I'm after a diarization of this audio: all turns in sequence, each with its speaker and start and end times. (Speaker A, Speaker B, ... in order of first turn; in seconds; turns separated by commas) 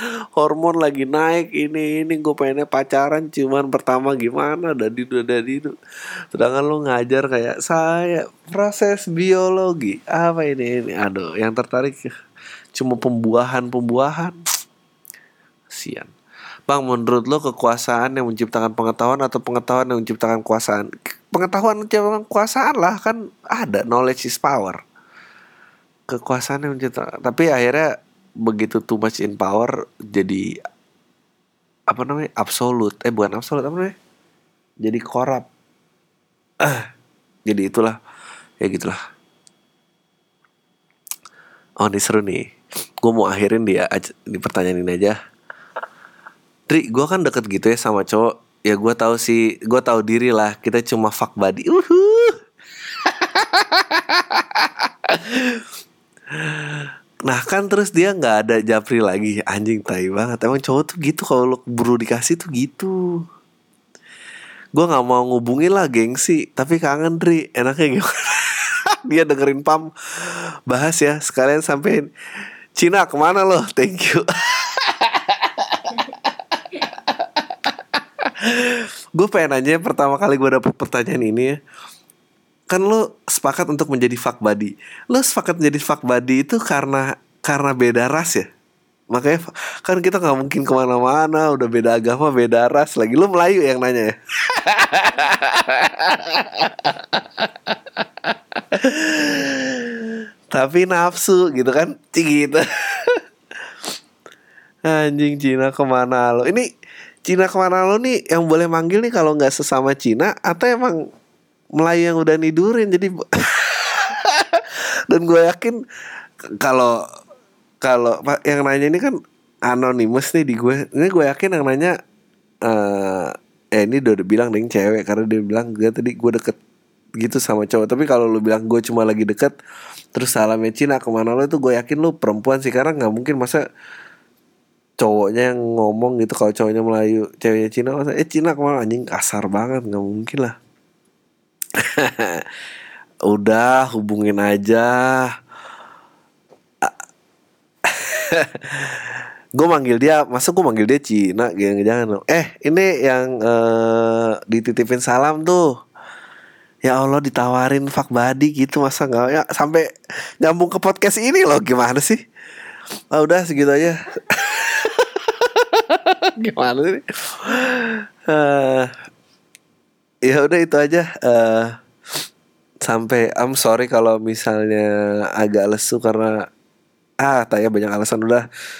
Speaker A: 0.3-5.7, Speaker A: 6.3-12.1, Speaker A: 12.7-14.4, Speaker A: 15.7-16.1, Speaker A: 16.7-24.8, Speaker A: 26.1-27.9, Speaker A: 28.4-30.6, Speaker A: 31.9-33.9, Speaker A: 34.8-35.5, Speaker A: 36.6-36.9, Speaker A: 37.5-38.0, Speaker A: 38.6-39.0, Speaker A: 41.8-42.5, Speaker A: 43.0-45.2, Speaker A: 46.7-52.4, Speaker A: 53.0-55.6, Speaker A: 56.3-63.0, Speaker A: 64.8-72.0, Speaker A: 72.8-81.6, Speaker A: 82.7-88.5, Speaker A: 89.1-103.2, Speaker A: 104.8-106.7, Speaker A: 107.2-111.0, Speaker A: 111.8-115.8, Speaker A: 116.6-117.0, Speaker A: 117.8-119.2, Speaker A: 119.7-121.9, Speaker A: 122.7-126.6, Speaker A: 127.2-129.5, Speaker A: 130.1-133.6, Speaker A: 135.0-140.5, Speaker A: 141.8-142.4, Speaker A: 143.3-145.3, Speaker A: 147.9-155.7, Speaker A: 156.8-159.9, Speaker A: 160.4-162.2, Speaker A: 163.1-168.9, Speaker A: 170.2-171.7, Speaker A: 172.8-176.4, Speaker A: 177.2-178.4